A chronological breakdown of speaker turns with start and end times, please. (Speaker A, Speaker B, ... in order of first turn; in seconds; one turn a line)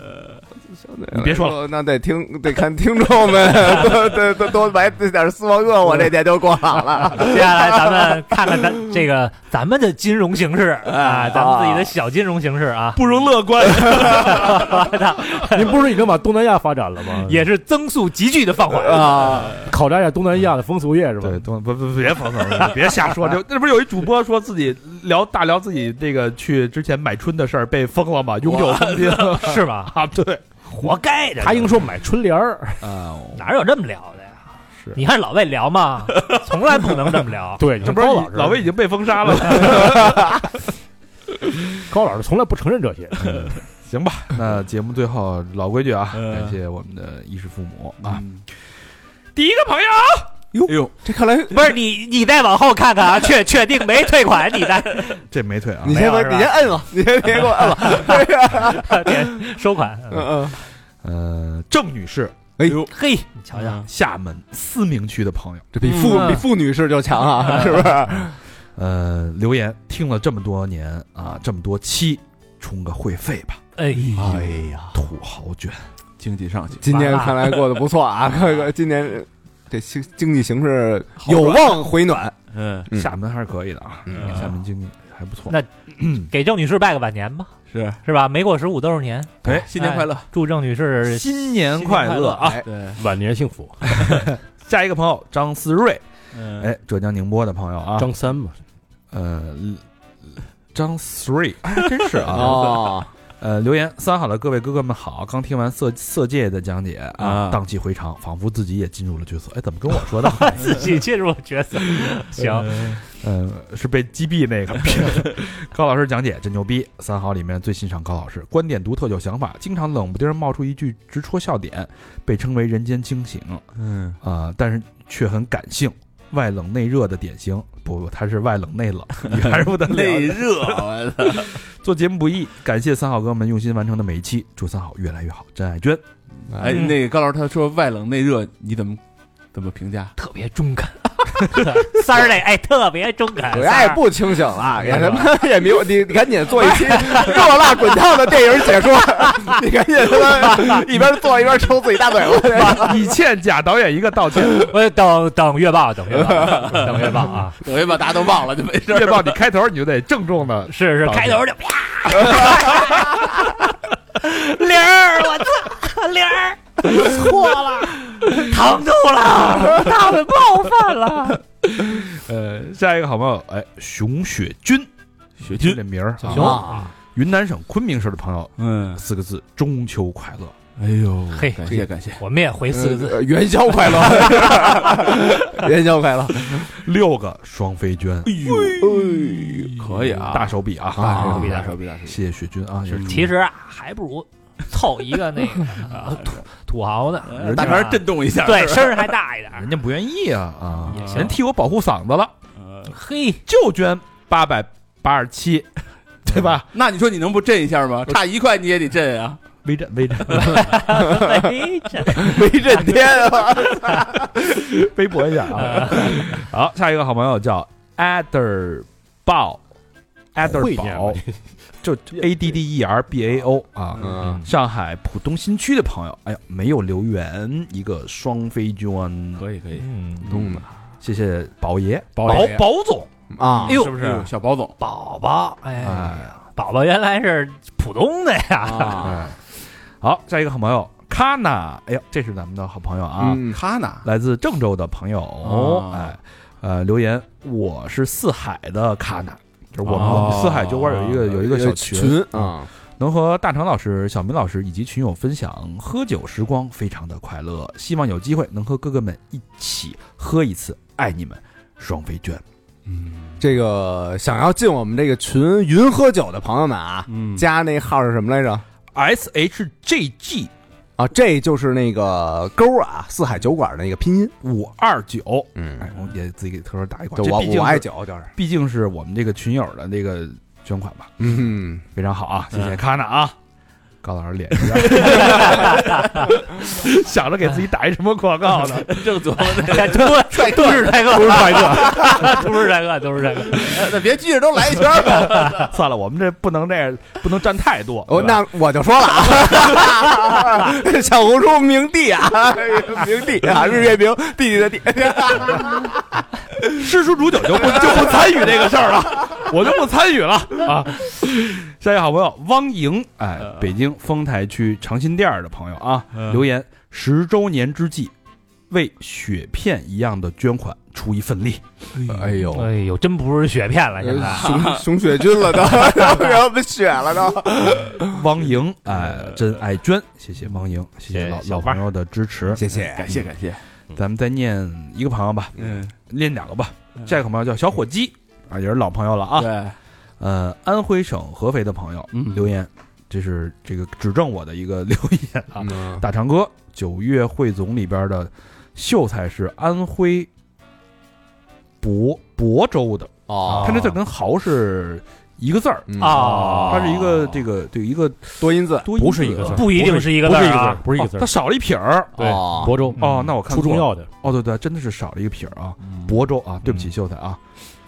Speaker A: 0.8-7.7
Speaker B: 1.1-1.6
Speaker C: 7.1-13.0
Speaker A: 10.9-11.9
Speaker B: 12.9-14.9
Speaker C: 13.8-15.5
Speaker D: 15.5-17.4
Speaker C: 17.3-19.5
Speaker A: 18.8-19.6
Speaker D: 19.6-21.4
Speaker B: 21.2-30.4
Speaker E: 28.5-29.1
Speaker C: 29.3-29.9
Speaker C: 30.7-31.7
Speaker D: 31.4-32.8
Speaker B: 32.8-33.5
Speaker C: 33.3-34.4
Speaker C: 34.9-37.7
Speaker D: 37.6-38.6
Speaker B: 37.8-40.6
Speaker D: 41.9-43.5
Speaker E: 43.3-43.6
Speaker B: 43.8-48.2
Speaker E: 46.1-46.5
Speaker E: 48.0-48.4
Speaker B: 49.3-50.3
Speaker A: 50.5-51.7
Speaker E: 50.6-50.9
Speaker C: 51.5-55.2
Speaker B: 55.3-56.1
Speaker A: 55.8-59.2
Speaker C: 55.9-56.7
Speaker C: 57.3-60.5
Speaker A: 60.1-60.6
Speaker B: 61.0-62.4
Speaker A: 62.6-62.9
Speaker C: 62.9-63.8
Speaker E: 63.6-63.8
Speaker B: 63.8-65.7
Speaker A: 65.7-68.3
Speaker C: 65.8-66.5
Speaker B: 68.8-73.6
Speaker C: 73.8-74.3
Speaker E: 73.9-74.5
Speaker A: 74.1-75.0
Speaker B: 74.9-75.9
Speaker E: 76.2-77.2
Speaker A: 76.8-82.3
Speaker C: 76.9-77.5
Speaker E: 81.3-81.6
Speaker E: 82.5-82.9
Speaker B: 82.9-86.3
Speaker A: 84.1-84.4
Speaker E: 84.1-84.5
Speaker C: 85.5-92.5
Speaker E: 87.7-88.0
Speaker E: 89.4-90.3
Speaker B: 91.0-92.6
Speaker E: 92.6-93.0
Speaker D: 93.0-93.9
Speaker B: 93.9-96.0
Speaker E: 96.3-96.7
Speaker B: 96.5-98.1
Speaker D: 98.0-98.6
Speaker B: 99.1-99.8
Speaker B: 100.7-102.8
Speaker E: 102.0-102.9
Speaker A: 102.3-103.1
Speaker B: 103.4-110.8
Speaker E: 107.2-107.6
Speaker C: 110.4-113.0
Speaker E: 112.6-113.0
Speaker B: 113.2-123.6
Speaker E: 123.8-124.2
Speaker B: 124.2-136.0
Speaker E: 129.3-131.5
Speaker E: 136.4-139.0
Speaker A: 136.5-136.8
Speaker C: 136.7-136.9
Speaker E: 139.5-140.1
Speaker C: 140.2-145.5
Speaker A: 143.5-153.1
Speaker C: 146.7-147.4
Speaker B: 152.6-154.7
Speaker C: 154.3-157.6
Speaker E: 156.3-159.3
Speaker B: 158.9-161.4
Speaker C: 160.7-171.4
Speaker B: 162.4-162.9
Speaker B: 171.8-174.9
Speaker E: 175.4-175.8
Speaker B: 175.4-176.6
Speaker A: 176.3-176.9
Speaker C: 176.3-176.9
Speaker B: 177.1-180.5
Speaker E: 178.6-179.0
Speaker E: 180.8-182.2
Speaker C: 181.3-181.6
Speaker C: 182.2-184.8
Speaker A: 182.7-186.7
Speaker B: 186.7-188.9
Speaker E: 188.2-192.2
Speaker A: 188.8-189.8
Speaker B: 190.3-193.3
Speaker A: 191.0-191.7
Speaker C: 191.2-191.7
Speaker E: 192.9-193.3
Speaker C: 193.0-199.7
Speaker E: 195.9-196.2
Speaker E: 197.2-199.1
Speaker B: 197.4-198.0
Speaker B: 199.5-202.3
Speaker E: 200.9-201.3
Speaker C: 200.9-201.3
Speaker E: 202.6-202.9
Speaker C: 202.9-203.4
Speaker B: 203.5-205.7
Speaker B: 206.2-206.7
Speaker E: 206.4-209.4
Speaker B: 209.6-210.7
Speaker C: 210.4-212.9
Speaker A: 212.1-214.3
Speaker B: 214.3-219.6
Speaker C: 215.6-216.1
Speaker B: 220.3-221.2
Speaker D: 220.4-221.3
Speaker B: 221.8-229.4
Speaker A: 224.0-224.4
Speaker E: 224.0-224.3
Speaker E: 229.4-230.6
Speaker C: 229.8-230.3
Speaker A: 230.3-230.6
Speaker B: 231.0-233.1
Speaker E: 232.2-232.5
Speaker A: 232.2-232.6
Speaker A: 233.3-233.8
Speaker E: 233.6-234.7
Speaker B: 233.7-234.3
Speaker C: 233.7-234.0
Speaker C: 234.8-239.2
Speaker B: 235.8-236.3
Speaker A: 238.6-239.2
Speaker B: 239.0-239.3
Speaker B: 240.0-243.4
Speaker A: 243.2-243.6
Speaker E: 243.4-244.1
Speaker B: 244.0-262.4
Speaker E: 245.4-246.2
Speaker E: 249.8-251.2
Speaker A: 251.2-252.7
Speaker A: 263.4-268.6
Speaker E: 267.1-267.4
Speaker B: 268.9-270.5
Speaker A: 271.0-274.3
Speaker B: 274.4-281.1
Speaker A: 275.6-275.9
Speaker A: 277.2-278.3
Speaker A: 281.2-281.8
Speaker B: 281.9-283.3
Speaker B: 284.0-289.1
Speaker E: 284.8-285.0
Speaker C: 285.0-286.3
Speaker E: 288.7-290.2
Speaker C: 289.4-293.9
Speaker A: 290.3-292.5
Speaker D: 291.3-291.9
Speaker E: 293.6-295.6
Speaker B: 294.8-298.4
Speaker C: 295.2-295.5
Speaker A: 298.1-306.0
Speaker B: 306.7-318.1
Speaker B: 318.7-321.6
Speaker E: 321.9-322.3
Speaker A: 322.0-322.7
Speaker C: 322.5-324.7
Speaker A: 324.0-328.2
Speaker E: 324.4-324.8
Speaker B: 327.9-332.6
Speaker E: 329.1-329.3
Speaker C: 331.1-331.8
Speaker A: 332.5-333.2
Speaker E: 332.7-333.6
Speaker B: 333.9-339.6
Speaker E: 335.6-335.9
Speaker E: 339.4-339.8
Speaker B: 340.2-350.3
Speaker E: 342.1-342.4
Speaker A: 345.6-346.0
Speaker B: 351.8-362.2
Speaker A: 353.3-353.9
Speaker D: 353.5-353.8
Speaker A: 355.9-357.0
Speaker C: 356.0-356.9
Speaker D: 356.3-356.7
Speaker A: 358.4-358.9
Speaker D: 358.9-361.3
Speaker C: 359.4-360.8
Speaker A: 362.2-362.7
Speaker D: 362.2-364.1
Speaker B: 363.0-367.4
Speaker E: 363.0-363.3